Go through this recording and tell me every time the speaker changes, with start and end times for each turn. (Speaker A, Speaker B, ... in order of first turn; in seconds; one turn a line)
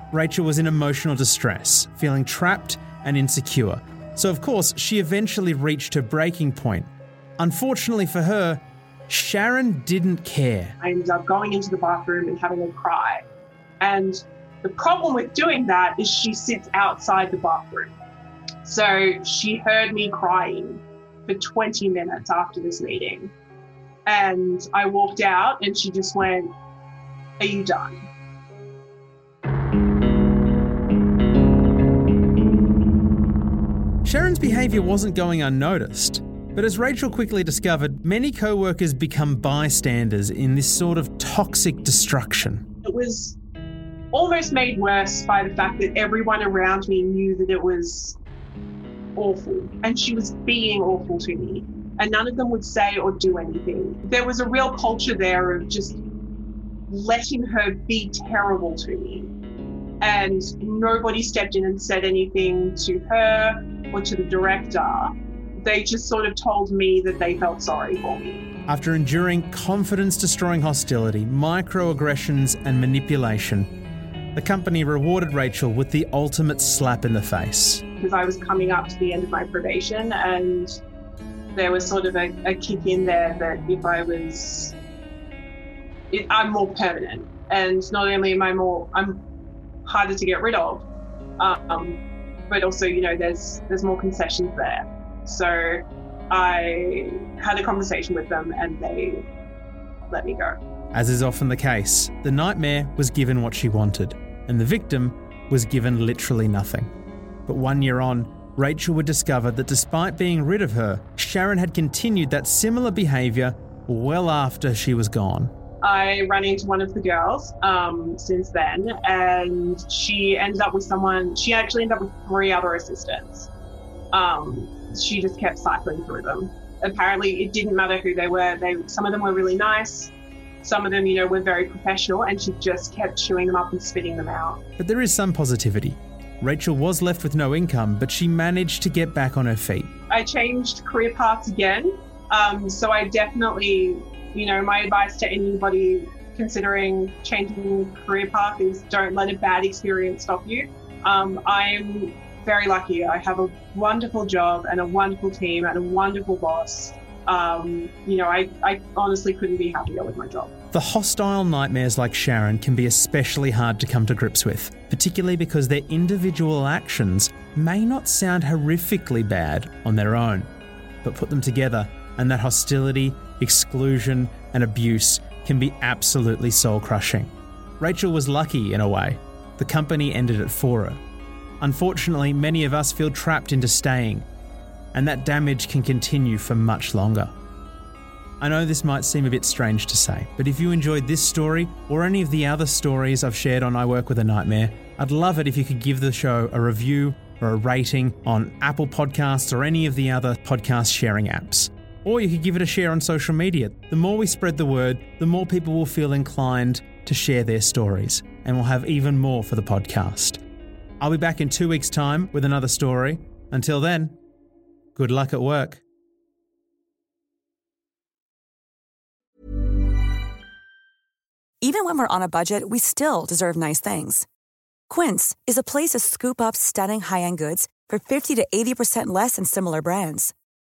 Speaker A: 0.1-10.8
Speaker B: 10.8-13.2
Speaker B: 13.8-18.0
Speaker B: 18.6-23.3
Speaker B: 24.1-26.5
Speaker B: 27.4-28.1
Speaker A: 34.0-42.6
Speaker B: 42.8-43.4
Speaker B: 44.1-48.2
Speaker B: 49.1-56.0
Speaker B: 56.9-59.3
Speaker B: 60.0-68.5
Speaker A: 68.7-73.7
Speaker A: 74.3-77.8
Speaker B: 78.0-80.7
Speaker B: 81.5-84.7
Speaker B: 86.1-89.2
Speaker B: 89.8-90.9
Speaker B: 91.4-99.2
Speaker B: 100.1-100.6
Speaker A: 100.9-106.9
Speaker A: 107.5-115.5
Speaker B: 115.8-123.5
Speaker B: 124.1-134.6
Speaker A: 134.8-139.9
Speaker B: 140.1-160.5
Speaker A: 160.7-170.5
Speaker A: 171.0-181.0
Speaker A: 181.6-184.2
Speaker A: 184.9-187.3
Speaker A: 188.4-210.4
Speaker A: 211.0-214.2
Speaker A: 214.9-215.8
Speaker C: 221.6-224.3
Speaker C: 224.9-230.3